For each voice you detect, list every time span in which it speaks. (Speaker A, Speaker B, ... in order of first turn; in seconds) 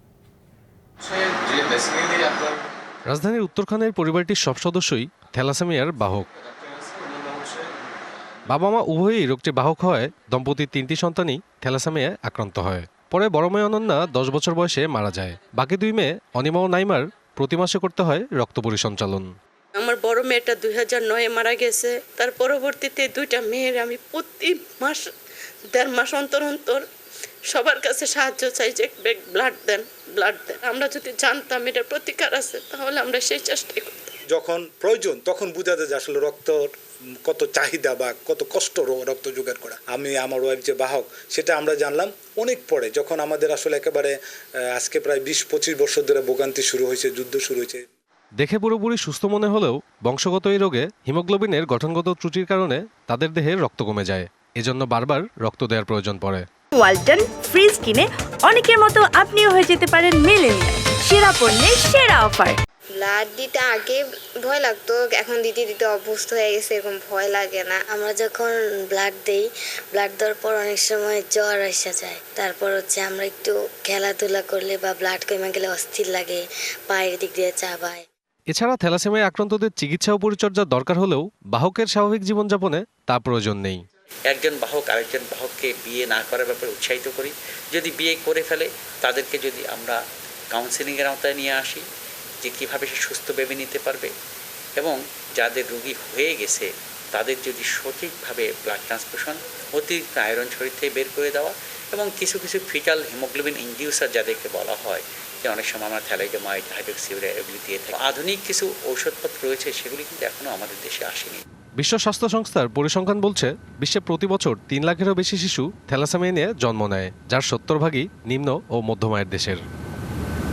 Speaker A: 1.1-2.5, 6.7-7.7
Speaker B: 3.1-6.3, 8.5-19.2, 48.4-56.4, 78.5-83.8, 111.8-119.6
Speaker C: 19.8-25.1, 25.7-26.8, 27.5-34.1
Speaker D: 34.3-36.7, 37.2-44.1, 44.7-47.9
Speaker E: 56.7-62.6
Speaker F: 62.9-67.8
Speaker G: 67.9-78.0
Speaker H: 84.3-90.0, 90.5-91.8, 92.4-94.1, 94.8-111.4